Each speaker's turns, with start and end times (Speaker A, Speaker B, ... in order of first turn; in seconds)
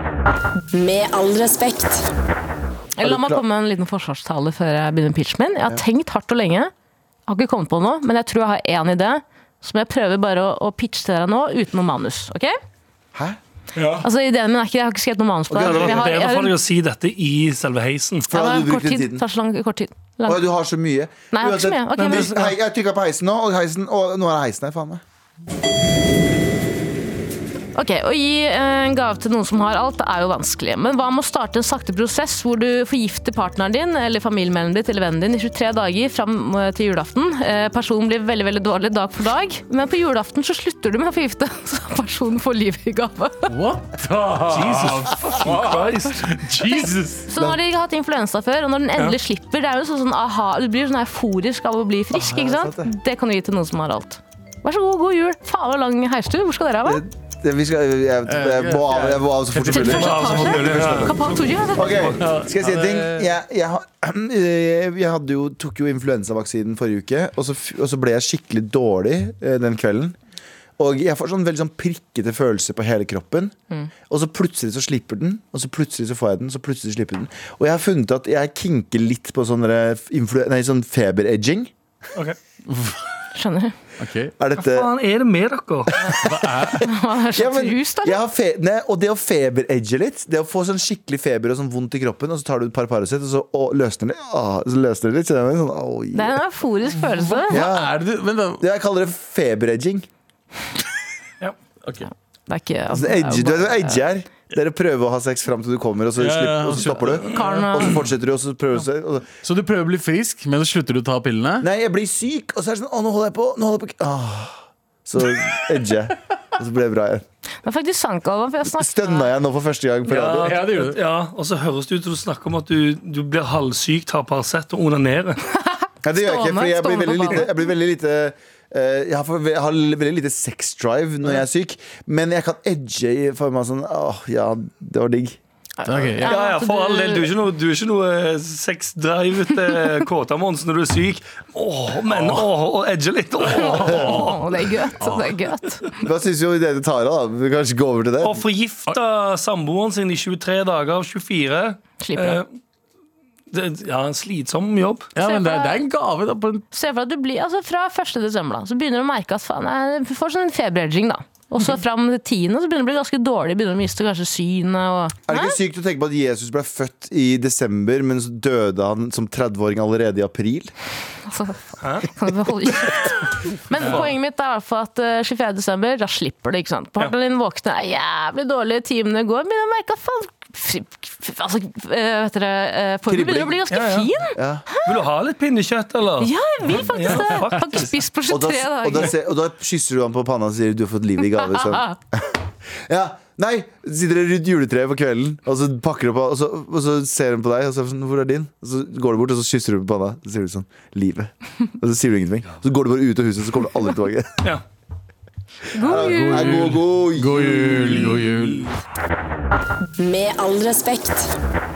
Speaker A: 0.7-2.1, 210.0-211.3
Speaker B: 3.0-6.7, 7.3-12.5, 14.0-16.6, 18.3-20.4, 21.3-22.5, 27.7-43.5, 46.7-57.0, 59.7-62.1, 83.3-83.7, 86.8-88.2, 96.1-97.6, 102.5-104.0, 107.3-107.9, 117.6-119.3, 126.1-127.5, 135.8-137.3, 143.5-145.9, 152.0-152.4, 155.2-155.8, 156.7-165.6, 171.3-184.9, 186.2-189.1, 191.4-191.9, 205.7-206.6
Speaker C: 3.0-3.4, 15.5-16.0, 18.3-19.2, 20.2-25.0, 52.1-52.9, 56.8-61.2, 61.7-70.2, 70.8-73.5, 74.1-81.7, 84.4-84.9, 86.0-96.4, 97.5-98.0, 98.6-100.1, 102.9-109.3, 111.6-117.2, 118.8-120.6, 126.0-135.4, 146.0-148.4, 165.2-170.7, 183.1-183.6, 184.3-184.6, 188.3-192.3, 192.9-204.5, 205.8-208.2
Speaker D: 13.8-14.1, 43.5-47.3, 58.3-60.9, 62.2-63.3, 82.7-83.0, 84.0-84.3, 86.2-86.9, 97.1-98.6, 101.8-102.1, 106.2-107.2, 109.4-111.7, 120.4-121.0, 135.8-136.3, 143.6-144.3, 145.0-145.4, 155.1-156.6, 206.0-208.7
Speaker E: 15.6-18.3, 22.0-22.4, 44.5-46.4, 59.8-62.3, 84.6-86.0, 120.1-125.4, 136.2-144.4, 148.2-152.5, 153.5-155.1, 171.8-172.1, 183.7-184.1, 184.8-187.9, 208.0-208.4